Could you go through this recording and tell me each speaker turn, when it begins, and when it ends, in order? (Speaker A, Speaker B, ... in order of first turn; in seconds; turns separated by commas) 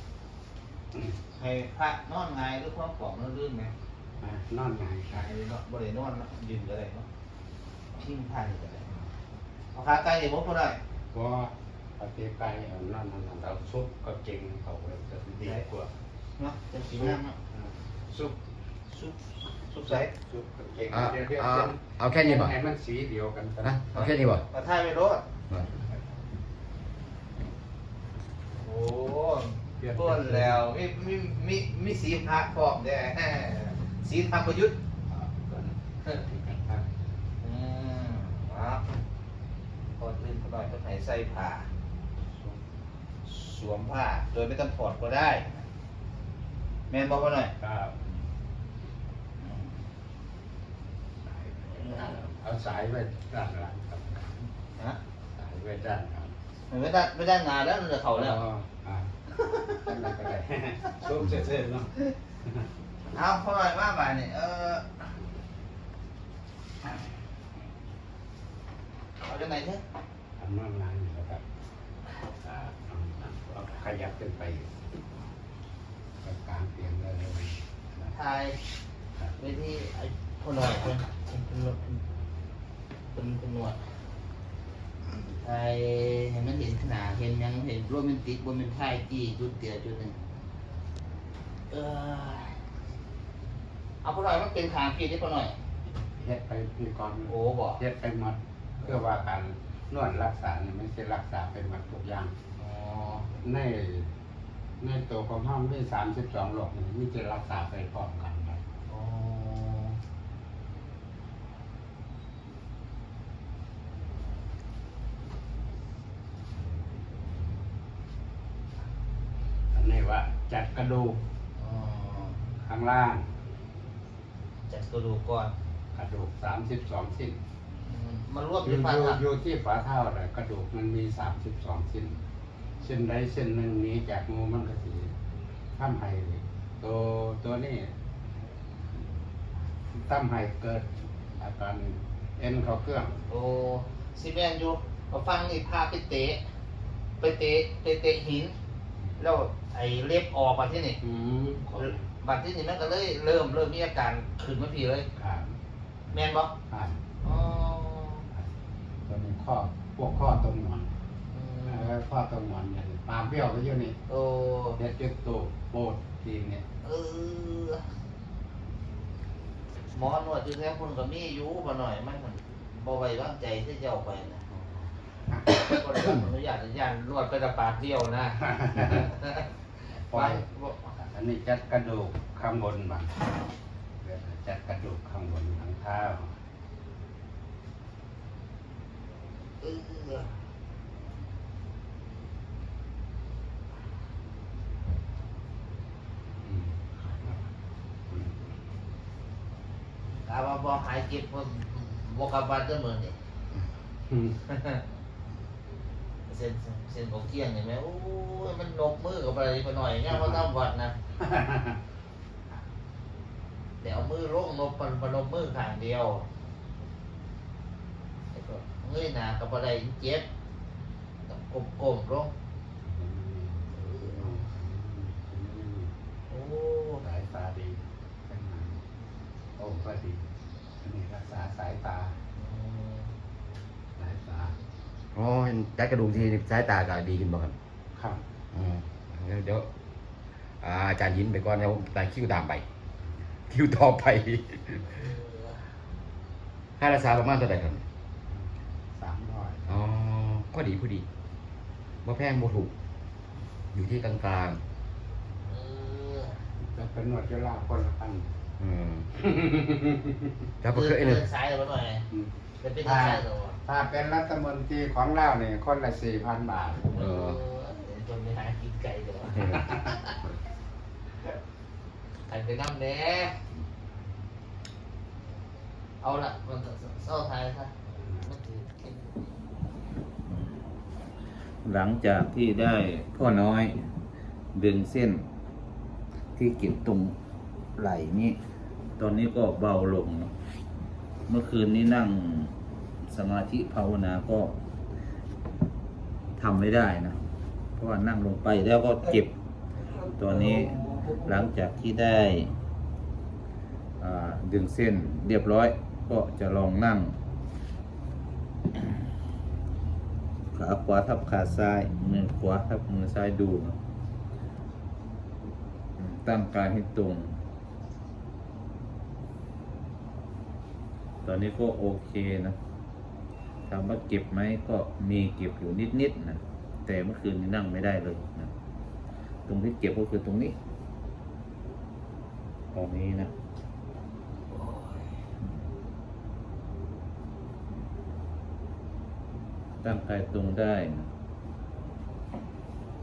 Speaker A: 1.4-3.7, Speaker B: 4.2-5.3, Speaker A: 5.1-7.1, Speaker A: 8.0-9.0, Speaker A: 9.8-10.8, Speaker B: 11.1-15.9, Speaker A: 16.4-17.4, Speaker B: 16.9-18.4, Speaker A: 18.9-20.1, Speaker B: 19.8-23.8, Speaker C: 20.9-22.6, Speaker C: 23.6-24.5, Speaker A: 23.9-25.2, Speaker A: 28.6-34.8, Speaker B: 29.8-30.7, Speaker B: 35.1-36.9, Speaker A: 37.4-38.8, Speaker A: 40.0-41.7, Speaker A: 43.3-45.6, Speaker A: 46.9-47.5, Speaker B: 47.6-48.1, Speaker A: 49.5-49.8, Speaker B: 51.3-54.4, Speaker A: 51.8-52.1, Speaker B: 55.4-56.3, Speaker A: 56.7-58.4, Speaker B: 58.1-59.1, Speaker A: 59.4-59.7, Speaker B: 59.7-61.9, Speaker A: 63.1-65.1, Speaker A: 69.2-69.8, Speaker B: 70.4-71.4, Speaker B: 72.4-74.7, Speaker B: 76.2-78.2, Speaker A: 78.1-78.6, Speaker A: 79.4-82.0, Speaker A: 83.1-83.8, Speaker A: 85.4-90.2, Speaker A: 91.7-92.7, Speaker A: 94.0-95.6, Speaker B: 96.2-102.3, Speaker A: 97.3-97.8, Speaker A: 102.6-103.3, Speaker B: 103.4-104.1, Speaker B: 104.8-108.6, Speaker A: 108.9-110.0, Speaker B: 119.7-121.2, Speaker A: 121.6-122.4, Speaker B: 122.6-123.3, Speaker A: 124.7-125.5, Speaker B: 125.9-127.4, Speaker A: 127.8-129.2, Speaker B: 128.6-132.2, Speaker B: 132.8-135.1, Speaker B: 135.8-137.9, Speaker B: 139.9-143.2, Speaker A: 143.3-146.4, Speaker A: 147.2-148.5, Speaker A: 149.2-151.0, Speaker B: 151.0-152.0, Speaker A: 151.8-155.1, Speaker B: 155.2-155.6, Speaker A: 156.1-156.5, Speaker B: 156.7-157.0, Speaker A: 157.2-158.3, Speaker B: 159.1-160.9, Speaker A: 161.3-161.9, Speaker B: 161.7-164.0, Speaker A: 164.1-164.8, Speaker B: 164.8-166.7, Speaker A: 166.8-167.9, Speaker A: 169.9-174.5, Speaker B: 175.3-176.2, Speaker A: 175.5-179.5, Speaker B: 178.6-179.1, Speaker B: 179.9-183.2, Speaker A: 180.1-180.9, Speaker B: 184.0-186.4, Speaker A: 189.6-190.3, Speaker B: 196.4-197.5, Speaker B: 198.1-198.4, Speaker A: 200.2-203.2, Speaker B: 204.1-204.4, Speaker A: 204.5-204.8, Speaker A: 206.3-210.9, Speaker B: 210.1-210.5, Speaker B: 211.2-211.8, Speaker A: 213.8-216.3, Speaker A: 218.3-220.3, Speaker A: 221.3-222.3, Speaker B: 222.8-225.9, Speaker A: 223.8-224.5, Speaker A: 226.3-227.0, Speaker B: 227.0-228.8, Speaker B: 229.6-230.2, Speaker B: 230.8-232.2, Speaker A: 232.4-233.1, Speaker B: 234.0-234.6, Speaker C: 235.1-237.6, Speaker B: 237.9-238.2, Speaker C: 238.5-239.7, Speaker C: 240.6-242.7, Speaker C: 243.5-245.1, Speaker C: 246.8-247.8, Speaker B: 248.3-249.8, Speaker C: 249.7-251.1, Speaker C: 252.0-252.7, Speaker C: 253.7-254.6, Speaker A: 255.5-256.4, Speaker B: 256.6-258.3, Speaker C: 258.6-259.1, Speaker B: 259.2-260.3, Speaker C: 260.6-261.3, Speaker A: 260.7-262.1, Speaker B: 262.1-267.1, Speaker A: 262.6-263.6, Speaker A: 266.9-270.2, Speaker C: 267.0-267.4, Speaker A: 272.3-273.4, Speaker A: 276.0-279.2, Speaker B: 278.0-278.3, Speaker D: 280.3-280.6, Speaker D: 281.6-283.9, Speaker D: 284.5-285.2, Speaker D: 286.4-287.2, Speaker D: 287.8-288.4, Speaker D: 289.0-290.3, Speaker D: 291.3-292.5, Speaker D: 293.0-294.6, Speaker D: 296.4-297.2, Speaker D: 297.8-299.3, Speaker D: 300.2-302.5, Speaker A: 300.4-301.1, Speaker D: 304.0-307.2, Speaker D: 310.5-313.8, Speaker D: 316.0-317.4, Speaker D: 321.2-322.6, Speaker D: 323.7-328.5, Speaker D: 329.5-330.6, Speaker D: 332.7-333.3, Speaker A: 334.5-335.1, Speaker D: 339.8-341.1